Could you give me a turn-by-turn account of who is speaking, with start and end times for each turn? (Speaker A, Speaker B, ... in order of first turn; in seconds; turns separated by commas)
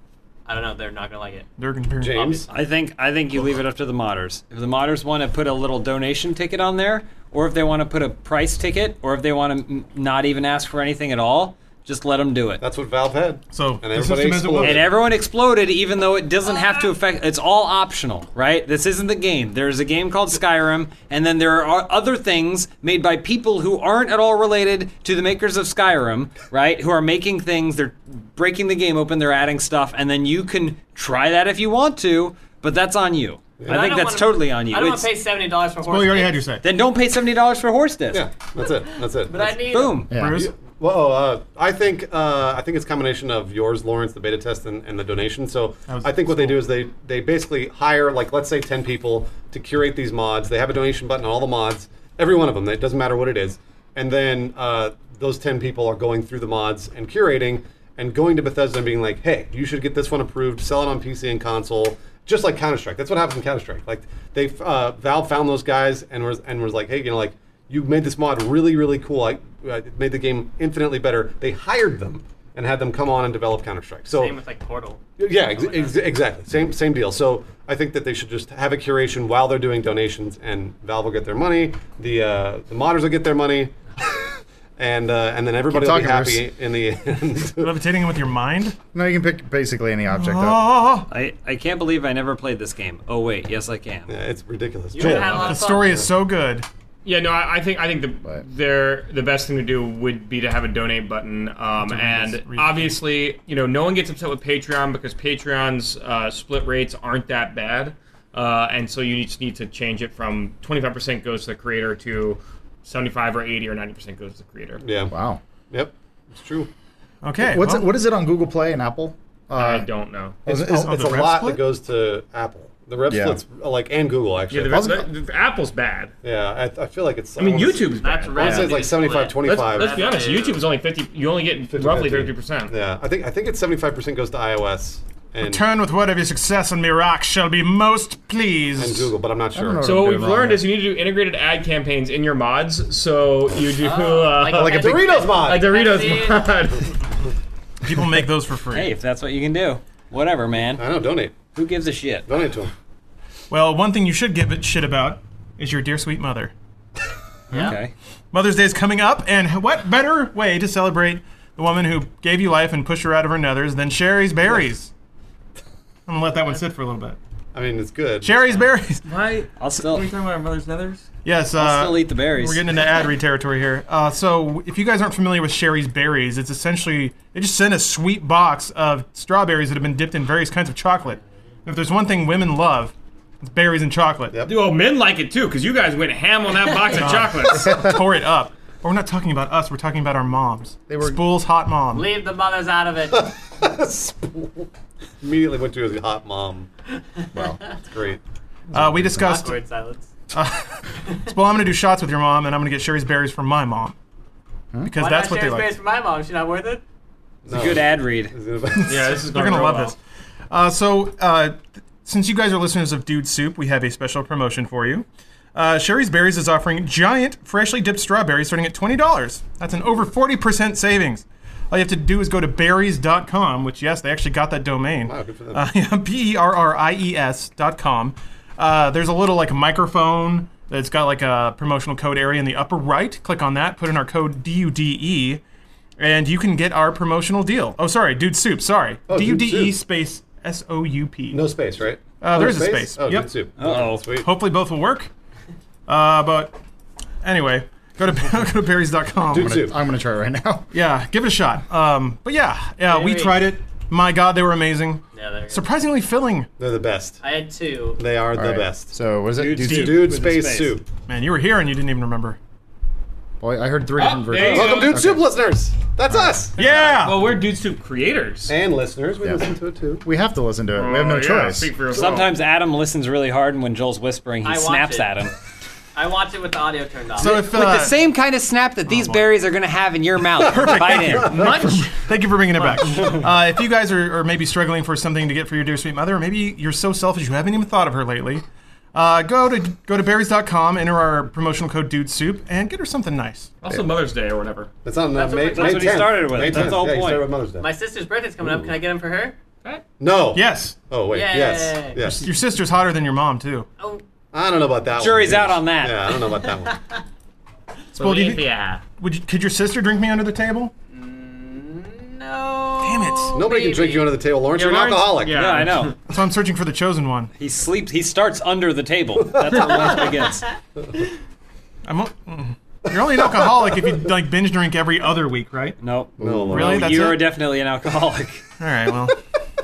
Speaker A: 0.5-1.5, Speaker B: 1.6-2.4, Speaker C: 2.0-2.5, Speaker D: 2.5-12.6, Speaker C: 12.6-14.9, Speaker B: 13.5-14.9, Speaker D: 14.6-35.1, Speaker C: 33.6-33.9, Speaker A: 33.7-36.5, Speaker B: 35.9-36.6, Speaker D: 36.6-38.3, Speaker C: 38.1-39.6, Speaker A: 39.2-40.0, Speaker D: 39.6-40.1, Speaker E: 40.1-40.5, Speaker B: 40.1-40.5, Speaker C: 40.2-74.3, Speaker B: 45.9-46.6, Speaker A: 74.1-75.0, Speaker C: 75.2-84.2, Speaker A: 75.5-76.0, Speaker C: 84.8-87.8, Speaker E: 85.7-86.5, Speaker B: 87.6-88.8, Speaker E: 88.9-90.6, Speaker B: 90.1-91.1, Speaker D: 91.1-94.1, Speaker C: 94.1-96.1, Speaker A: 94.9-96.0, Speaker B: 95.0-96.7, Speaker F: 97.0-114.8, Speaker B: 101.8-103.0, Speaker C: 114.8-115.1, Speaker E: 115.1-115.4, Speaker C: 115.7-116.7, Speaker B: 117.2-117.9, Speaker E: 117.4-119.9, Speaker F: 119.5-120.4, Speaker C: 120.5-125.0, Speaker E: 120.5-121.0, Speaker B: 120.8-121.6, Speaker E: 123.1-123.4, Speaker F: 124.5-126.1, Speaker E: 124.7-125.1, Speaker C: 126.2-130.0, Speaker F: 127.4-132.7, Speaker A: 128.0-130.6, Speaker C: 131.7-135.7, Speaker B: 135.4-139.1, Speaker C: 138.8-139.9, Speaker E: 139.6-140.7, Speaker F: 139.8-147.0, Speaker A: 143.8-146.6, Speaker C: 144.5-145.7, Speaker B: 147.8-148.9, Speaker D: 148.7-150.8, Speaker C: 150.8-151.5, Speaker D: 151.4-152.2, Speaker C: 152.3-152.7, Speaker B: 153.5-156.5, Speaker D: 157.5-157.9, Speaker B: 158.3-164.9, Speaker B: 166.1-167.2, Speaker C: 167.5-168.6, Speaker B: 168.2-169.0, Speaker F: 169.1-171.1, Speaker D: 169.6-170.1, Speaker B: 171.2-184.4, Speaker D: 171.6-172.6, Speaker C: 184.3-184.6, Speaker F: 184.5-187.8, Speaker B: 186.9-192.1, Speaker E: 190.9-191.2, Speaker A: 191.9-193.3, Speaker C: 193.1-194.7, Speaker C: 195.2-196.7, Speaker E: 197.3-197.6, Speaker C: 197.8-198.2, Speaker B: 198.7-199.6, Speaker E: 198.7-199.3, Speaker A: 199.2-200.1, Speaker B: 200.3-204.0, Speaker B: 204.8-205.8, Speaker A: 204.9-206.8, Speaker C: 207.4-209.2, Speaker D: 207.5-208.3, Speaker B: 208.8-210.0, Speaker F: 208.8-210.0, Speaker B: 210.5-235.4, Speaker C: 225.1-225.7, Speaker B: 236.0-241.5, Speaker C: 239.1-239.8, Speaker C: 241.3-244.3, Speaker B: 242.2-243.4, Speaker D: 243.6-244.1, Speaker B: 244.1-245.1, Speaker B: 245.9-246.6, Speaker B: 247.2-249.6, Speaker C: 249.3-249.8, Speaker E: 249.3-250.7, Speaker B: 250.7-256.5, Speaker A: 252.9-253.5, Speaker A: 255.1-255.7, Speaker C: 256.6-257.2, Speaker A: 257.2-258.0, Speaker C: 258.0-258.9, Speaker E: 258.3-260.1, Speaker D: 259.4-260.8, Speaker C: 259.6-260.9, Speaker B: 261.1-262.4, Speaker E: 263.4-265.3, Speaker F: 264.0-265.0, Speaker C: 264.4-267.0, Speaker E: 266.1-266.5, Speaker B: 266.6-267.2, Speaker F: 267.0-268.5, Speaker C: 268.5-270.1, Speaker E: 269.2-269.5, Speaker E: 270.0-271.7, Speaker F: 270.8-272.4, Speaker D: 271.9-275.3, Speaker A: 274.4-275.2, Speaker A: 275.9-277.5, Speaker B: 277.2-278.0, Speaker D: 277.3-281.5, Speaker B: 278.9-279.2, Speaker B: 280.5-293.6, Speaker F: 281.2-282.0, Speaker F: 293.6-294.7, Speaker C: 294.8-297.7, Speaker A: 295.1-296.1, Speaker D: 295.5-297.3, Speaker A: 297.6-299.4, Speaker C: 298.4-298.7, Speaker C: 300.0-302.3, Speaker B: 300.4-300.8, Speaker A: 301.1-302.0, Speaker B: 302.0-303.7, Speaker C: 304.3-306.8, Speaker D: 304.9-306.1, Speaker F: 307.9-308.8, Speaker B: 308.0-308.5, Speaker B: 309.0-310.7, Speaker A: 310.9-314.1, Speaker B: 312.8-313.4, Speaker C: 313.3-315.5, Speaker F: 314.5-316.0, Speaker D: 315.3-316.0, Speaker B: 316.1-317.3, Speaker D: 317.4-320.4, Speaker C: 319.4-319.8, Speaker B: 321.9-325.8, Speaker D: 325.8-328.4, Speaker E: 326.2-326.7, Speaker C: 326.2-327.0, Speaker B: 326.5-327.3, Speaker B: 328.6-329.2